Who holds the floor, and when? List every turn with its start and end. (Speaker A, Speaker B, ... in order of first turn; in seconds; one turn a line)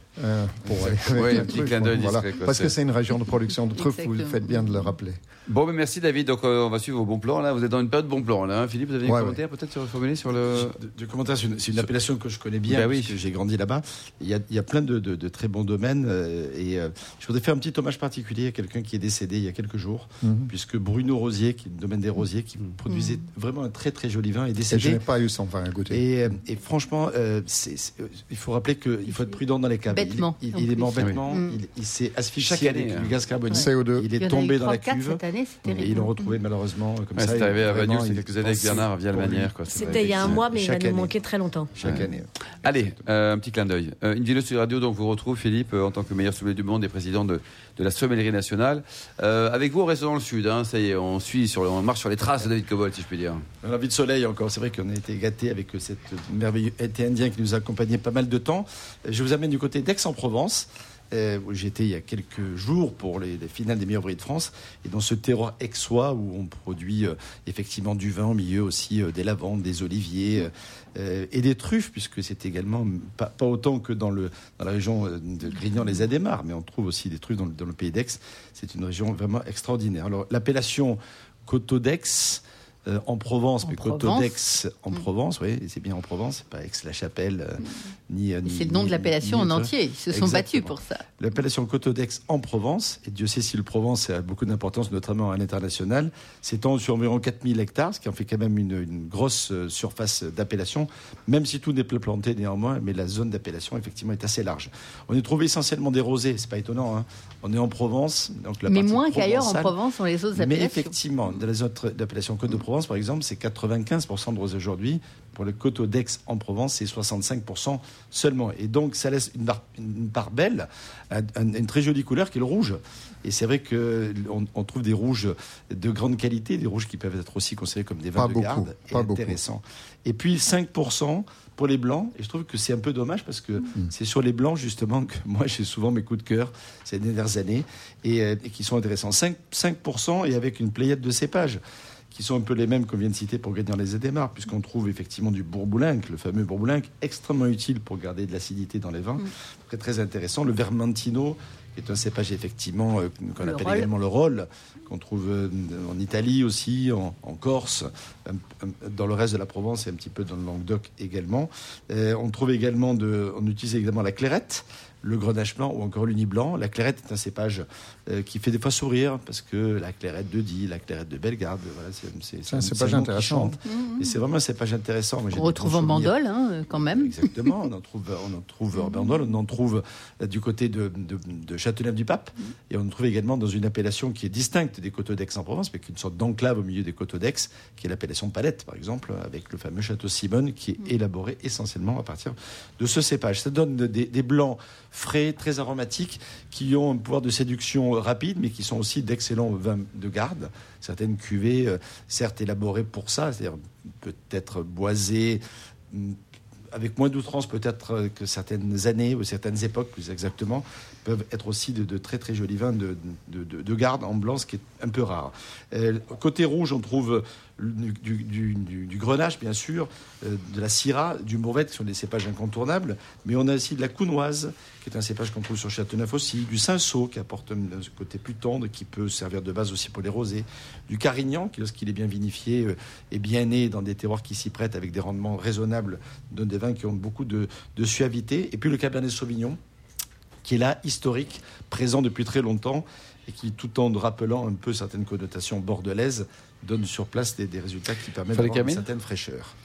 Speaker A: 0.2-5.2
Speaker B: 1.1-2.7
Speaker C: 3.7-4.6
Speaker B: 5.5-10.8
Speaker A: 9.0-9.4
Speaker D: 10.5-25.0
Speaker B: 12.7-13.2
Speaker A: 20.2-20.5
Speaker C: 22.9-23.1
Speaker A: 24.6-26.0
Speaker D: 25.9-41.1
Speaker C: 29.9-31.6
Speaker B: 32.4-33.1
Speaker C: 33.5-36.1
Speaker A: 33.5-34.1
Speaker B: 37.2-40.4
Speaker E: 39.7-41.8
Speaker D: 41.7-43.0
Speaker B: 41.8-42.1
Speaker B: 42.6-53.4
Speaker D: 53.6-109.7
Speaker C: 83.6-84.3
Speaker C: 88.4-91.0
Speaker C: 108.7-110.9
Speaker D: 110.3-141.6
Speaker A: 128.2-129.4
Speaker D: 142.1-176.1
Speaker C: 153.4-153.9
Speaker A: 172.4-173.6
Speaker C: 173.6-174.2
Speaker C: 175.3-177.1
Speaker D: 176.9-206.2
Speaker D: 206.7-239.6
Speaker D: 240.4-249.5
Speaker B: 248.3-248.9